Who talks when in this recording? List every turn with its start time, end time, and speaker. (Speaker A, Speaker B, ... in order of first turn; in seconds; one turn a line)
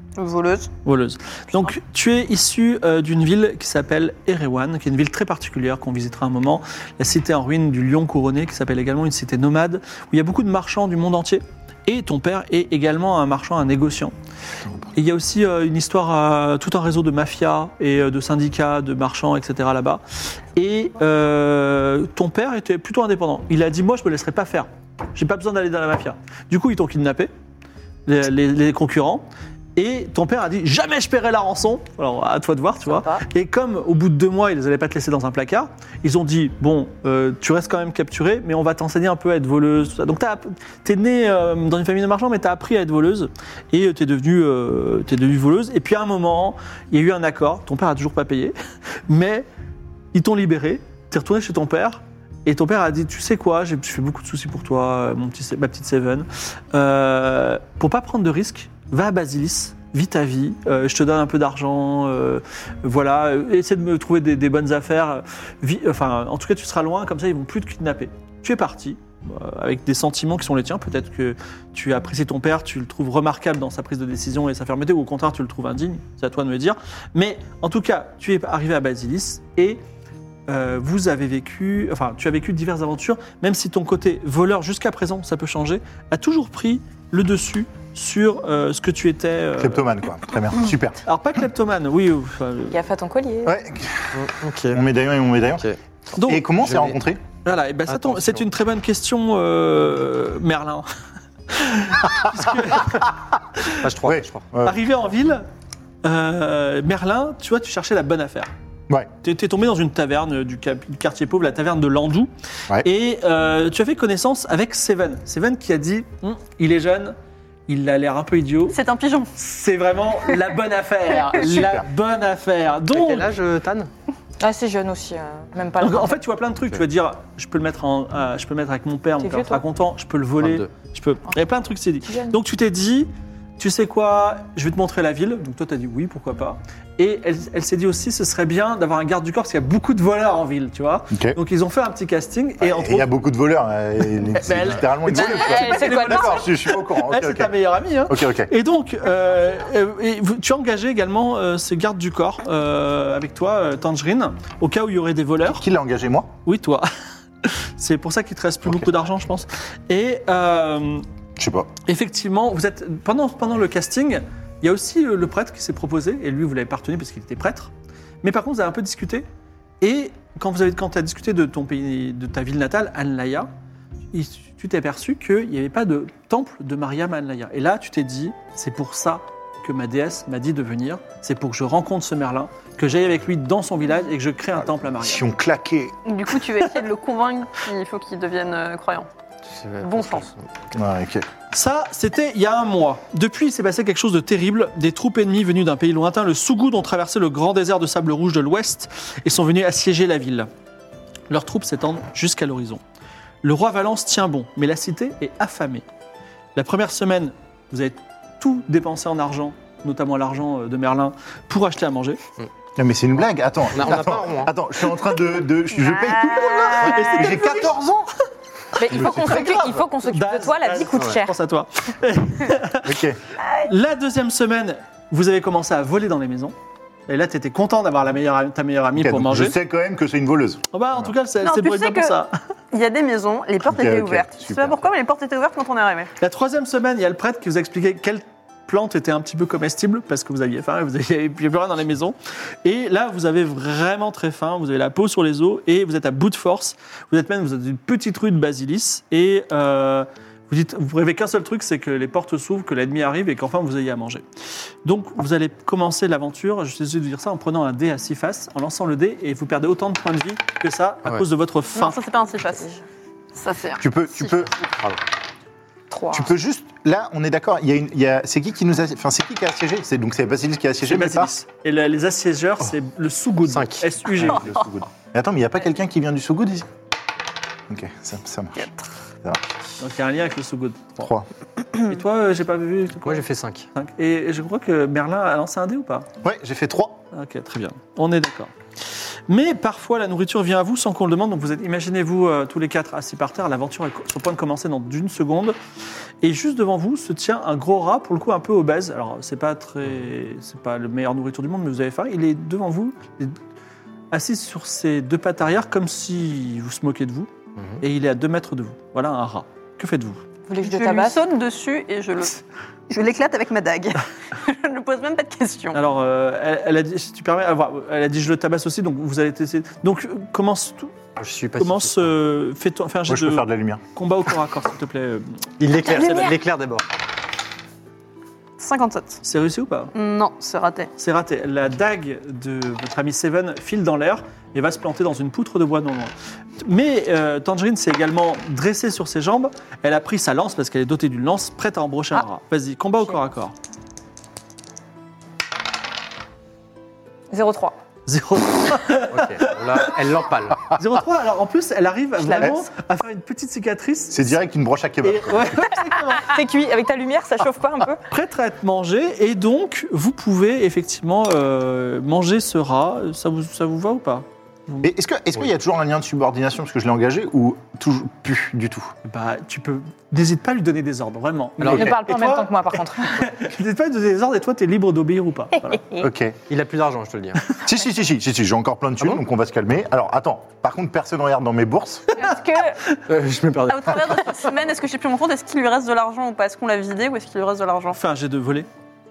Speaker A: 0.1-0.7
Speaker B: 0.8-14.1
Speaker C: 14.6-14.9
Speaker B: 14.9-20.0
Speaker B: 20.5-27.3
Speaker B: 28.1-29.2
Speaker B: 29.8-48.5
Speaker B: 49.1-49.5
Speaker B: 50.1-79.8
Speaker B: 80.5-89.9
Speaker C: 89.6-91.0
Speaker B: 91.0-92.8
Speaker D: 92.7-93.5
Speaker C: 93.4-95.7
Speaker E: 94.1-94.8
Speaker B: 96.2-96.6
Speaker C: 96.2-97.2
Speaker E: 96.6-97.0
Speaker B: 97.4-100.9
Speaker E: 97.9-98.5
Speaker B: 101.5-103.7
Speaker E: 103.8-104.5
Speaker C: 104.0-104.8
Speaker B: 104.6-105.5
Speaker B: 106.0-108.5
Speaker B: 109.2-117.2
Speaker B: 117.7-118.8
Speaker A: 118.7-119.3
Speaker B: 119.3-123.3
Speaker C: 121.4-121.9
Speaker E: 122.9-123.9
Speaker D: 124.4-126.2
Speaker B: 125.8-143.1
Speaker D: 129.2-129.6
Speaker E: 130.4-130.7
Speaker D: 132.1-132.4
Speaker C: 141.1-141.4
Speaker C: 142.6-148.5
Speaker B: 144.3-155.6
Speaker D: 145.1-146.4
Speaker C: 155.5-156.3
Speaker B: 156.4-156.9
Speaker B: 157.4-161.1
Speaker C: 161.4-161.7
Speaker B: 161.8-167.7
Speaker B: 168.2-169.3
Speaker B: 169.8-173.5
Speaker B: 174.1-185.3
Speaker C: 184.6-185.9
Speaker A: 186.1-189.1
Speaker E: 189.4-190.8
Speaker C: 190.7-191.3
Speaker B: 191.5-200.5
Speaker B: 201.3-202.8
Speaker B: 203.4-205.8
Speaker B: 206.6-212.2
Speaker C: 212.8-218.1
Speaker E: 213.7-214.5
Speaker A: 215.8-217.4
Speaker B: 216.8-217.7
Speaker D: 218.8-221.3
Speaker C: 218.9-219.7
Speaker B: 218.9-223.0
Speaker C: 222.8-223.2
Speaker B: 223.6-226.5
Speaker B: 227.1-229.6
Speaker C: 228.9-231.1
Speaker B: 230.7-232.3
Speaker A: 231.4-232.2
Speaker A: 232.7-236.1
Speaker C: 233.6-234.9
Speaker B: 236.2-254.2
Speaker B: 254.8-262.0
Speaker A: 261.7-262.8
Speaker A: 263.4-264.5
Speaker C: 263.8-264.5
Speaker D: 265.9-266.3
Speaker C: 266.1-271.3
Speaker B: 270.8-274.5
Speaker E: 273.5-273.9
Speaker C: 274.2-276.7
Speaker C: 277.7-278.7
Speaker B: 279.8-281.0
Speaker C: 281.0-281.3
Speaker B: 281.8-286.1
Speaker E: 283.0-283.7
Speaker C: 286.2-287.0
Speaker B: 287.1-288.5
Speaker B: 289.3-295.6
Speaker B: 296.2-303.4
Speaker B: 304.1-310.2
Speaker D: 310.5-311.2
Speaker A: 310.6-315.8
Speaker B: 315.7-320.9
Speaker E: 321.2-322.1
Speaker B: 321.6-326.3
Speaker C: 323.1-323.8
Speaker E: 325.6-326.9
Speaker A: 328.6-329.2
Speaker B: 329.2-329.9
Speaker A: 329.9-330.9
Speaker B: 331.0-343.6
Speaker D: 347.3-347.8
Speaker B: 348.1-350.1
Speaker E: 349.1-350.7
Speaker B: 350.7-354.4
Speaker D: 352.2-352.6
Speaker C: 354.1-355.6
Speaker B: 355.0-356.4
Speaker D: 356.1-358.0
Speaker B: 358.1-364.9
Speaker C: 364.8-368.9
Speaker B: 369.0-375.8
Speaker E: 371.6-371.9
Speaker D: 371.7-373.3
Speaker D: 375.7-376.1
Speaker C: 376.0-376.4
Speaker E: 376.5-377.6
Speaker C: 377.6-382.1
Speaker D: 382.2-382.8
Speaker E: 383.1-384.4
Speaker A: 383.7-388.0
Speaker B: 387.9-388.7